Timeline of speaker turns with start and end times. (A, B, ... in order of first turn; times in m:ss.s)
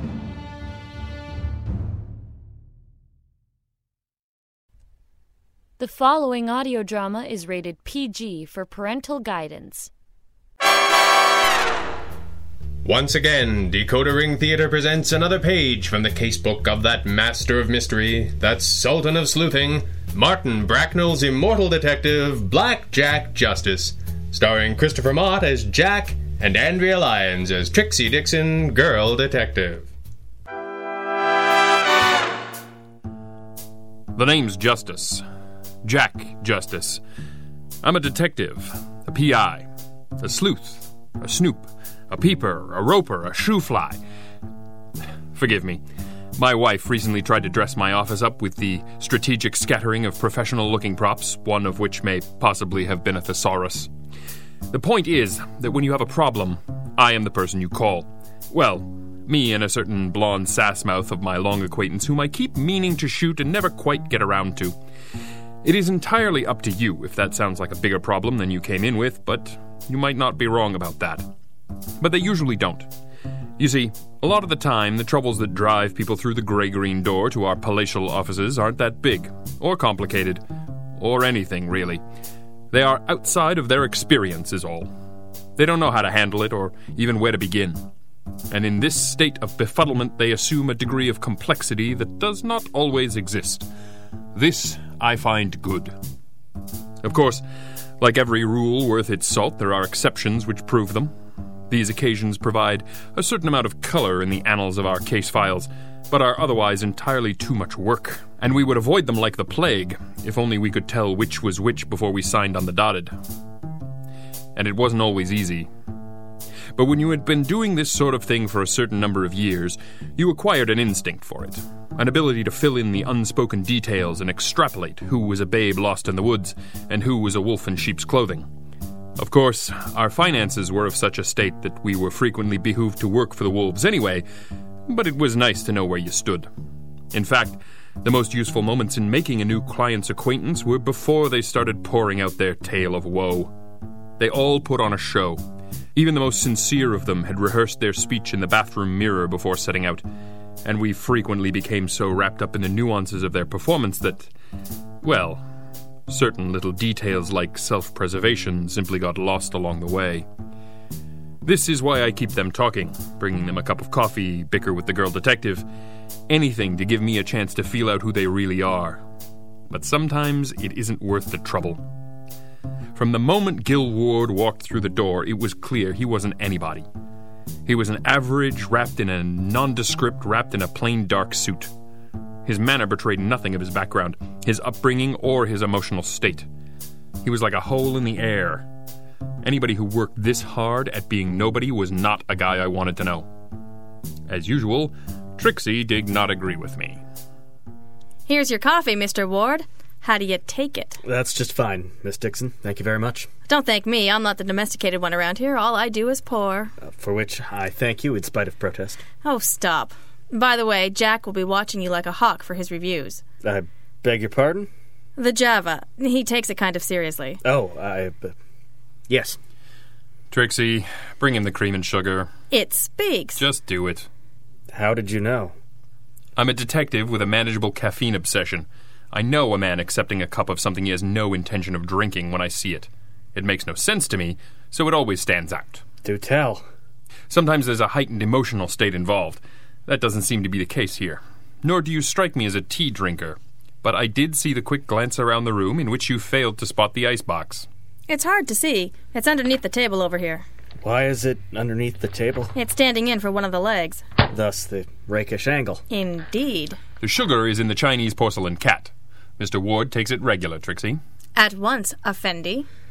0:05.8-0:09.9 A
0:12.8-0:29.9 B
0:34.1-0:35.2 C
0:35.8-0:37.0 C
0:37.8-0:39.7 C
0:40.2-0:44.0 C
0:45.3-0:45.8 C
0:46.4-0:53.9 C
0:54.7-1:04.7 C
1:05.6-1:11.3 C
1:12.0-1:12.9 C
1:13.6-1:20.4 C
1:21.0-1:22.0 C
1:22.7-1:24.9 C
1:25.6-1:27.8 C
1:28.5-1:33.7 C
1:34.3-1:35.9 C
1:37.0-1:37.4 C
1:38.0-1:41.1 C
1:41.7-1:53.1 C
1:54.6-1:55.7 C
1:56.7-2:08.4 C
2:09.2-2:14.2 C
2:14.9-2:16.5 C
2:17.1-2:23.5 C
2:24.2-2:25.4 C
2:25.9-2:30.0 C
2:30.6-2:34.3 C
2:35.0-2:35.4 C
2:36.1-2:40.2 C
2:41.4-2:45.6 C
2:46.3-2:49.0 C
2:49.7-2:51.8 C
2:52.9-2:56.8 C
2:57.6-3:01.7 C
3:02.4-3:06.5 C
3:07.2-3:08.7 C
3:09.4-3:13.3 C
3:14.3-3:17.0 C
3:18.3-3:21.0 D
3:21.0-3:23.3 E
3:23.5-3:26.7 D
3:26.8-3:29.0 E
3:29.2-3:33.2 D
3:33.4-3:34.7 E
3:35.2-3:37.4 D
3:37.4-3:38.3 E
3:39.1-3:39.4 E
3:40.3-3:42.3 C
3:42.5-3:43.4 D
3:43.4-3:44.1 C
3:44.7-3:45.5 E
3:46.4-3:55.8 C
3:56.0-3:56.6 E
3:57.3-4:07.6 C
4:08.1-4:10.4 D
4:10.8-4:12.5 E
4:12.5-4:14.0 D
4:14.3-4:15.8 E
4:15.9-4:16.8 D
4:17.0-4:21.0 C
4:21.4-4:22.7 D